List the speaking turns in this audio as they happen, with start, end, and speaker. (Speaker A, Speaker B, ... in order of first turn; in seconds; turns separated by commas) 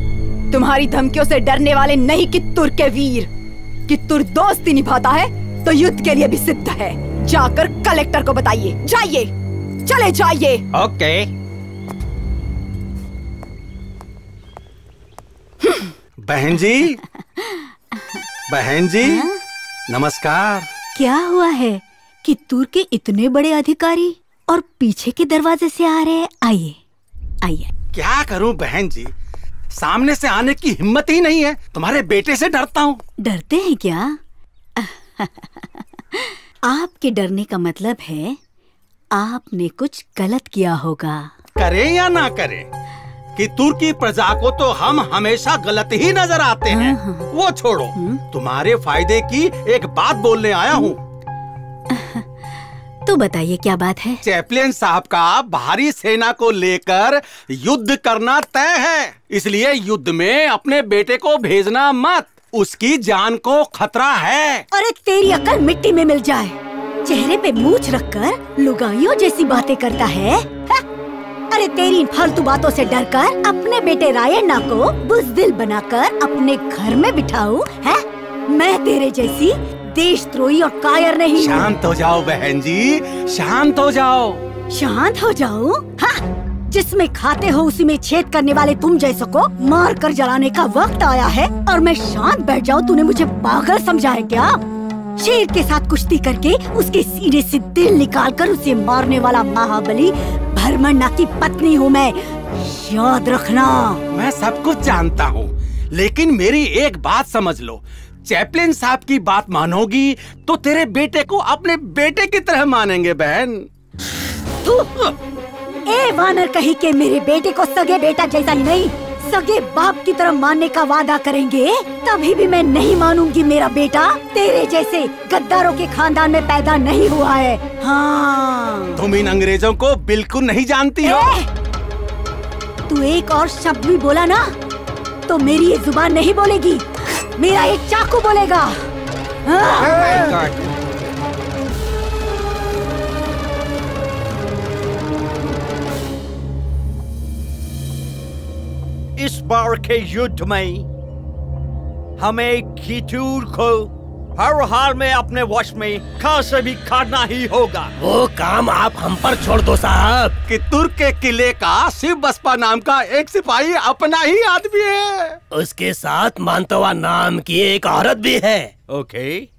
Speaker A: 0.5-3.3, Speaker A: 3.9-9.3, Speaker A: 9.8-10.6, Speaker B: 16.2-16.9, Speaker B: 18.5-19.2, Speaker C: 19.0-19.3, Speaker B: 19.9-20.7, Speaker C: 20.9-26.8, Speaker C: 27.4-27.7, Speaker B: 27.9-29.1, Speaker B: 29.8-33.0, Speaker C: 33.2-34.1, Speaker C: 34.8-38.4, Speaker C: 39.2-41.3, Speaker B: 41.6-42.7, Speaker B: 43.4-51.0, Speaker C: 46.7-47.3, Speaker C: 51.9-52.2, Speaker C: 53.0-54.2, Speaker B: 54.2-64.6, Speaker C: 64.7-70.8, Speaker C: 71.5-81.7, Speaker B: 81.4-84.4, Speaker C: 84.7-94.6, Speaker C: 95.2-104.0, Speaker B: 104.1-113.7, Speaker C: 114.6-115.1, Speaker C: 115.9-129.0, Speaker B: 129.0-131.3, Speaker C: 131.0-131.5, Speaker C: 132.9-134.5, Speaker C: 135.3-138.8, Speaker C: 139.5-140.0, Speaker D: 149.2-150.8, Speaker D: 152.2-157.9, Speaker E: 158.0-160.3, Speaker B: 160.5-165.3, Speaker E: 165.5-168.7, Speaker D: 168.9-169.5